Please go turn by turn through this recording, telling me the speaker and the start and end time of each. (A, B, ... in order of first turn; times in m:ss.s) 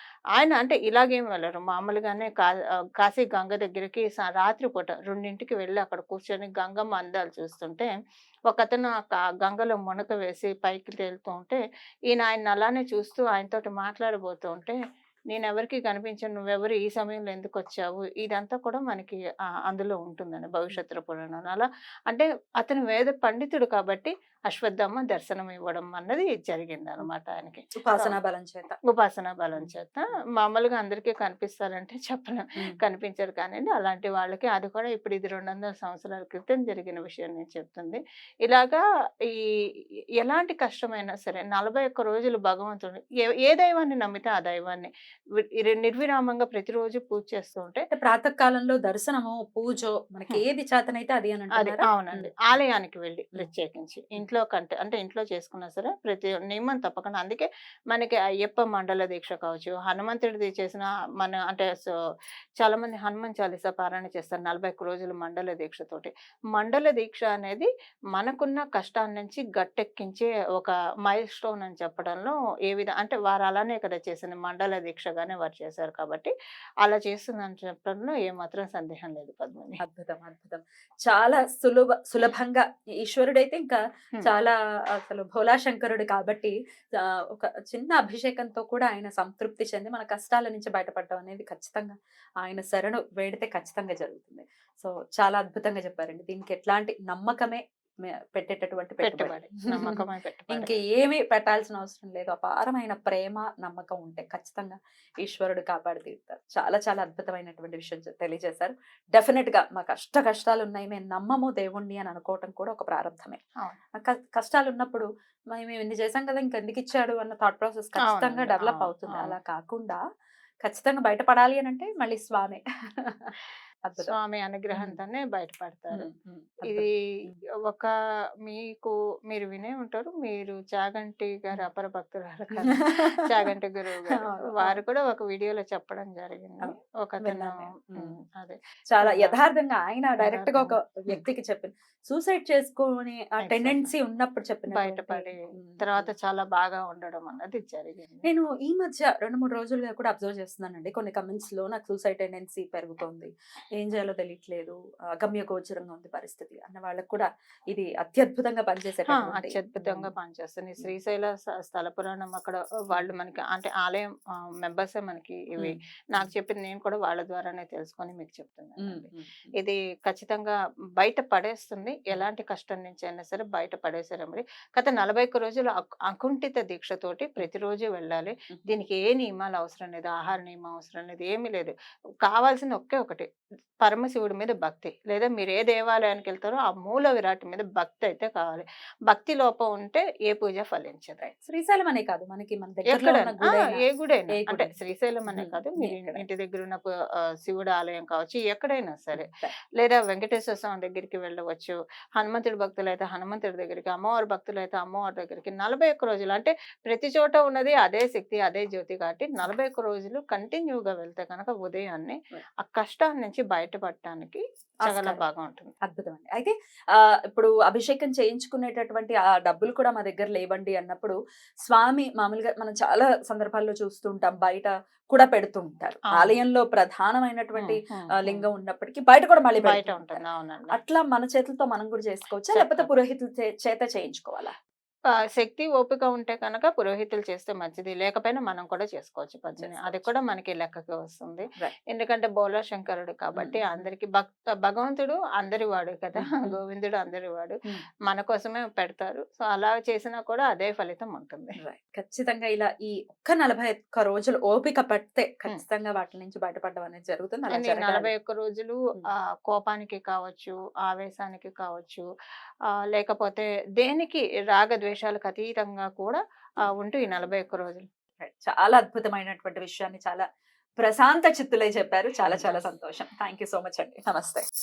0:00.4-0:07.9 A
0:08.5-0:14.8 A
0:15.3-0:28.1 A
0:27.8-0:28.8 B
0:28.9-0:39.5 A
0:40.2-0:44.9 A
0:45.4-0:47.8 A
0:47.9-0:52.6 B
0:51.6-1:01.9 A
1:02.6-1:16.3 A
1:16.8-1:19.8 A
1:19.8-1:37.6 B
1:38.2-1:53.4 B
1:39.0-1:40.7 A
1:54.0-2:00.0 B
1:58.0-1:59.4 A
2:00.6-2:03.3 B
2:04.0-2:06.1 A
2:05.9-2:07.4 B
2:06.6-2:06.9 A
2:07.6-2:07.9 A
2:08.4-2:19.4 A
2:12.6-2:13.0 B
2:14.2-2:14.8 B
2:16.6-2:18.1 B
2:18.9-2:26.1 B
2:20.2-2:21.2 A
2:23.4-2:23.9 A
2:24.7-2:28.3 A
2:28.2-2:40.1 B
2:39.1-3:03.3 A
2:45.6-2:46.3 B
2:48.8-2:49.5 B
3:03.8-3:11.3 A
3:11.4-3:14.8 B
3:12.9-3:35.7 A
3:15.3-3:16.2 B
3:19.2-3:19.5 B
3:34.8-3:35.2 B
3:35.8-3:50.2 B
3:47.6-3:48.5 A
3:49.6-3:50.8 A
3:50.7-3:54.5 B
3:52.5-3:52.9 A
3:55.3-4:11.6 A
3:59.6-4:00.1 B
4:03.3-4:03.8 B
4:06.1-4:06.6 B
4:11.6-4:18.1 B
4:17.5-4:18.8 A
4:19.5-4:22.1 A
4:22.7-4:27.8 A
4:28.2-4:30.3 B
4:30.8-4:34.4 B
4:32.3-4:32.6 A